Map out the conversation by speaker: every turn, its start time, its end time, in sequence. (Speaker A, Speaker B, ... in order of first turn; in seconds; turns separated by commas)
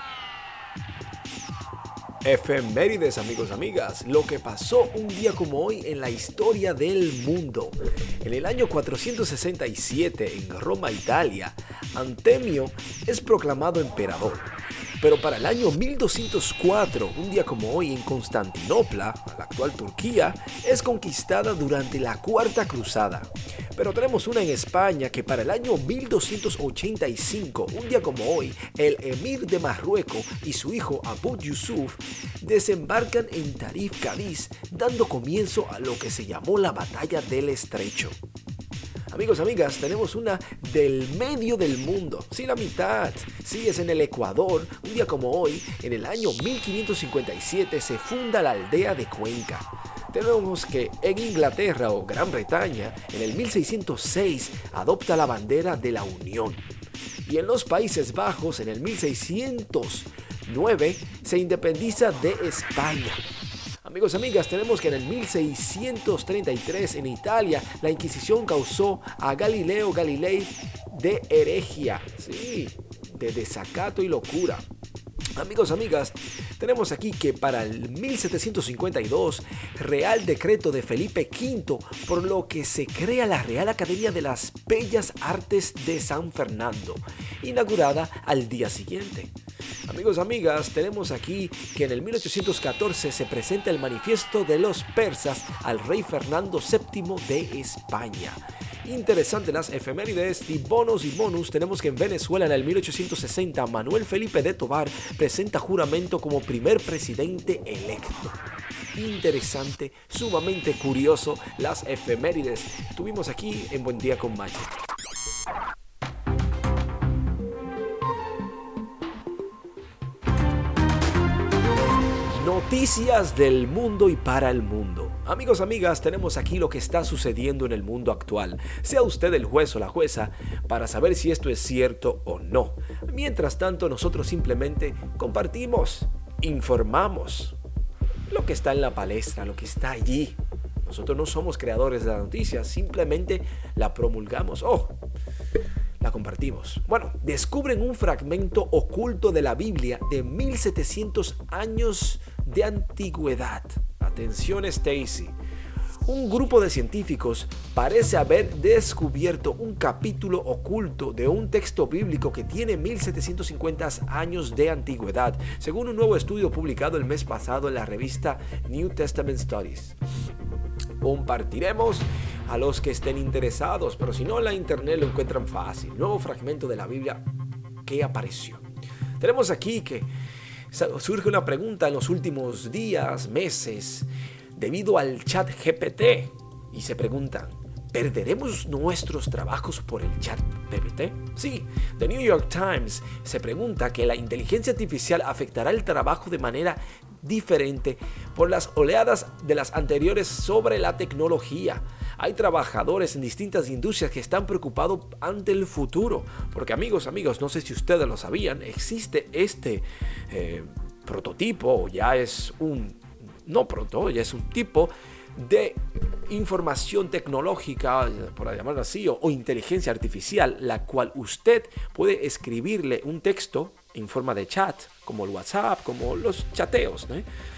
Speaker A: 2.2-38.2, Speaker A: 39.1-56.6, Speaker A: 57.2-63.2, Speaker A: 63.8-74.6, Speaker A: 75.3-89.3, Speaker A: 89.9-108.4, Speaker A: 108.9-114.7, Speaker A: 122.3-137.6, Speaker A: 138.3-145.0, Speaker A: 146.0-155.3, Speaker A: 156.0-170.0, Speaker A: 171.0-177.2, Speaker A: 177.8-178.6, Speaker A: 179.2-180.1, Speaker A: 180.7-227.3